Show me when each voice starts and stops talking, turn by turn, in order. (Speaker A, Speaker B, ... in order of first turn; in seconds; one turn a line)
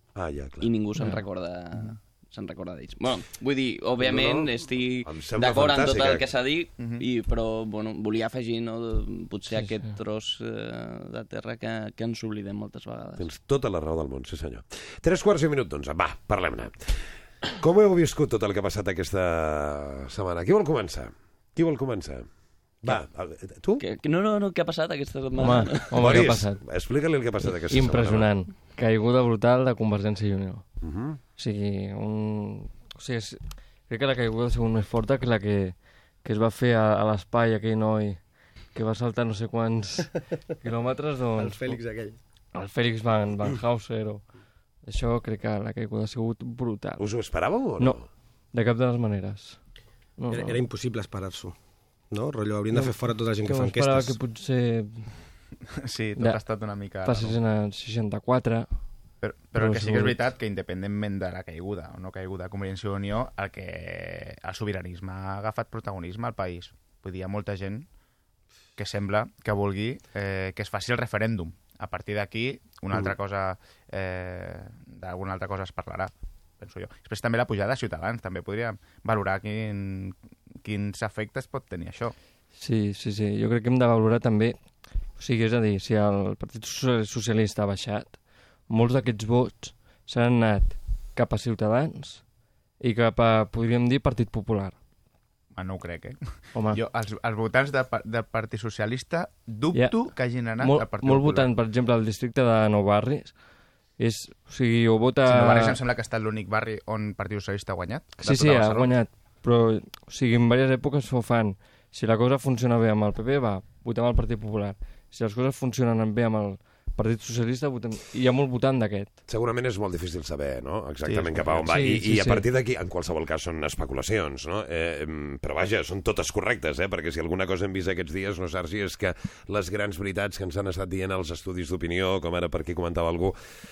Speaker A: 0.1-0.7
Speaker B: 0.6-13.3
Speaker C: 1.0-1.2
Speaker A: 4.0-6.3
Speaker D: 6.8-7.0
Speaker C: 9.6-9.9
Speaker A: 13.2-22.3
Speaker A: 22.8-23.8
Speaker B: 23.8-26.1
Speaker C: 25.4-26.6
Speaker A: 25.9-28.3
Speaker C: 27.6-30.6
Speaker A: 30.8-31.2
Speaker C: 31.4-38.2
Speaker C: 38.7-41.8
Speaker E: 41.4-42.2
Speaker C: 42.5-44.2
Speaker C: 44.9-47.0
Speaker A: 47.0-48.0
Speaker C: 48.5-49.6
Speaker C: 50.2-50.6
Speaker E: 50.3-51.6
Speaker E: 52.1-54.2
Speaker C: 52.7-55.1
Speaker D: 55.8-57.4
Speaker C: 57.0-58.7
Speaker D: 59.2-67.9
Speaker C: 59.6-60.2
Speaker D: 68.8-82.2
Speaker C: 82.6-84.6
Speaker C: 85.2-92.2
Speaker C: 92.8-94.8
Speaker D: 95.5-96.2
Speaker C: 96.5-96.8
Speaker D: 96.7-101.5
Speaker C: 99.7-103.4
Speaker C: 104.0-105.8
Speaker D: 105.3-109.0
Speaker C: 108.2-119.2
Speaker A: 119.3-133.4
Speaker D: 121.0-121.7
Speaker C: 121.7-122.5